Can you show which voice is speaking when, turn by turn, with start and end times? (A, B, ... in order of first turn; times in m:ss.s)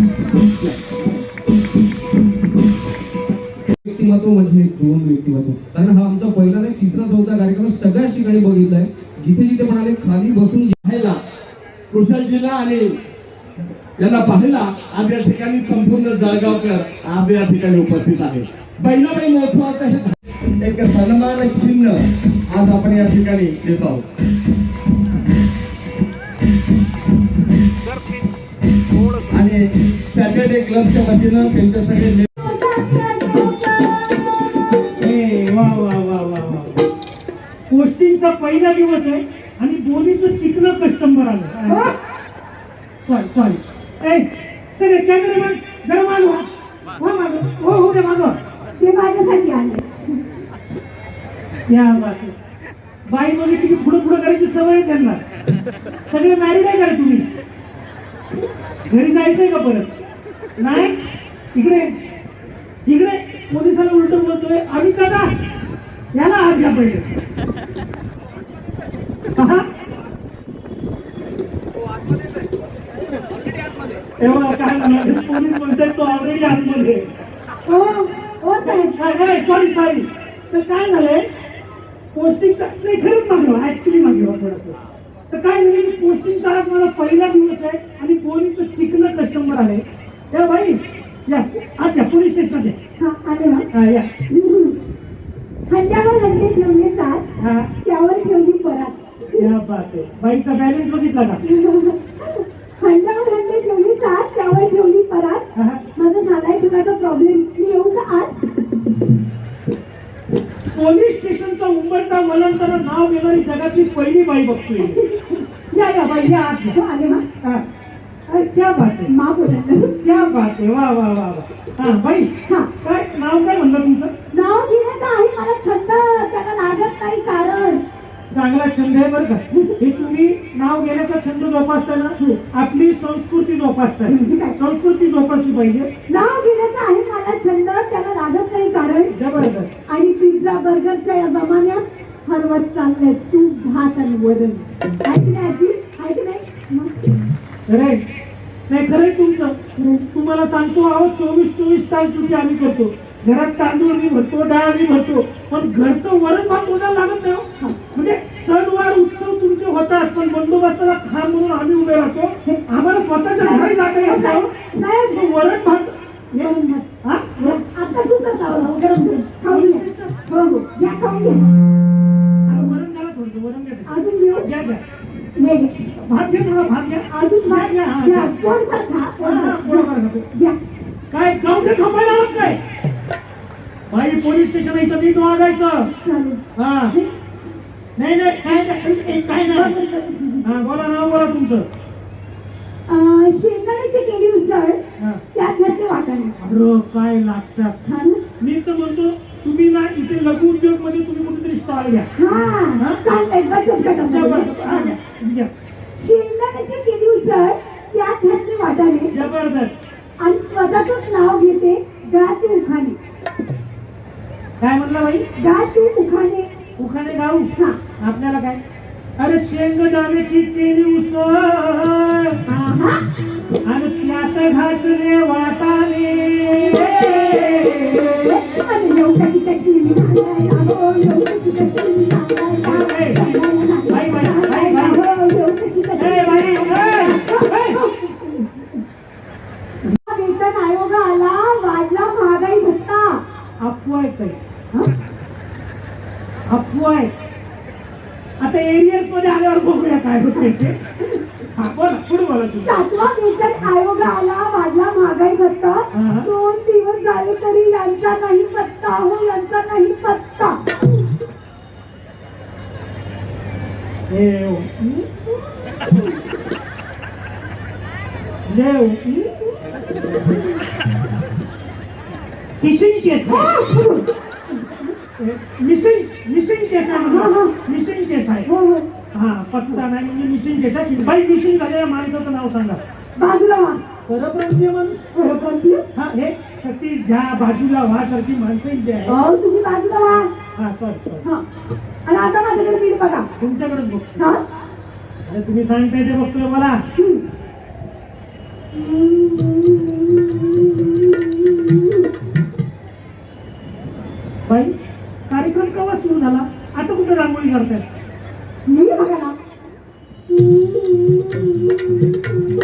0:03.8-0:10.7 A
0:10.8-0:11.2 B
0:11.9-0:12.9 B
0:14.0-0:24.0 B
0:27.9-0:28.2 C
0:29.0-0:29.3 C
0:29.3-0:32.3 B
0:32.4-0:33.5 D
0:35.0-0:36.7 C
0:37.7-0:41.8 C
0:41.7-0:41.9 D
0:43.0-0:46.4 C
0:47.0-0:48.4 C
0:48.8-0:50.1 D
0:51.7-0:52.3 C
0:53.1-0:55.2 C
0:56.0-0:57.2 C
0:58.9-0:59.9 C
1:00.6-1:01.0 C
1:01.5-1:01.9 C
1:02.8-1:05.3 C
1:06.1-1:07.0 C
1:09.4-1:09.7 C
1:14.2-1:17.0 C
1:17.6-1:18.9 D
1:18.6-1:21.2 C
1:22.1-1:24.8 C
1:25.3-1:32.8 C
1:33.0-1:33.6 D
1:33.7-1:34.1 C
1:34.3-1:34.8 D
1:35.7-1:37.2 D
1:37.4-1:37.7 C
1:37.8-1:39.5 D
1:39.4-1:41.4 C
1:41.4-1:48.4 D
1:45.5-1:45.8 C
1:50.7-1:55.0 C
1:54.8-1:55.3 D
1:55.7-1:56.8 C
1:56.7-1:57.2 D
1:58.3-1:59.1 C
1:59.1-2:00.0 D
2:00.0-2:02.3 C
2:02.4-2:02.7 D
2:02.8-2:04.1 C
2:04.3-2:07.8 D
2:08.3-2:15.9 C
2:09.5-2:09.8 D
2:14.0-2:14.5 D
2:16.1-2:19.1 D
2:19.1-2:19.7 C
2:19.9-2:27.1 D
2:27.7-2:28.0 C
2:28.7-2:44.5 C
2:43.4-2:45.2 D
2:45.1-2:46.5 C
2:46.3-2:46.9 D
2:47.0-2:47.6 C
2:47.4-2:51.4 D
2:49.4-2:50.2 C
2:52.5-2:53.9 C
2:53.9-2:54.5 D
2:54.4-2:54.8 C
2:55.4-2:55.8 D
2:56.0-2:58.3 C
2:57.1-3:00.6 D
2:59.2-3:00.2 C
3:01.1-3:02.6 C
3:03.9-3:05.9 C
3:06.0-3:07.1 D
3:06.6-3:06.9 C
3:08.0-3:09.7 C
3:09.5-3:10.6 D
3:10.4-3:11.6 C
3:12.9-3:14.8 D
3:15.3-3:16.4 D
3:16.4-3:17.8 C
3:17.8-3:18.2 D
3:18.4-3:22.1 C
3:22.2-3:24.9 D
3:24.0-3:25.5 C
3:26.0-3:29.1 D
3:29.1-3:29.8 C
3:30.2-3:33.0 D
3:34.6-3:35.2 C
3:35.4-3:36.5 D
3:36.8-3:38.6 C
3:37.5-3:37.8 D
3:39.2-3:42.4 C
3:42.4-3:43.0 D
3:43.6-3:48.2 C
3:46.6-3:58.7 D
3:52.6-3:53.2 C
3:53.9-3:55.0 C
3:56.0-3:57.8 C
4:00.0-4:03.2 D
4:03.6-4:04.4 C
4:06.5-4:07.1 C
4:08.4-4:10.8 C
4:11.5-4:12.8 C
4:12.6-4:20.6 D
4:15.9-4:16.3 C
4:24.1-4:25.0 C
4:28.4-4:29.2 C
4:32.6-4:33.6 C
4:33.2-4:34.9 D
4:35.2-4:38.5 C
4:36.9-4:37.5 D
4:38.4-4:38.9 D
4:39.1-4:42.8 C
4:43.2-4:43.8 D
4:44.1-4:45.0 C
4:45.1-4:45.8 D
4:45.9-4:49.2 C
4:49.0-4:50.3 D
4:50.6-4:51.2 C
4:52.0-4:53.3 D
4:53.4-4:54.2 C
4:54.2-4:54.4 D
4:55.3-4:56.8 C
4:57.0-4:57.2 D
4:58.7-5:02.0 D
5:04.4-5:04.7 C
5:05.3-5:07.9 C
5:08.6-5:09.3 D
5:10.3-5:11.7 D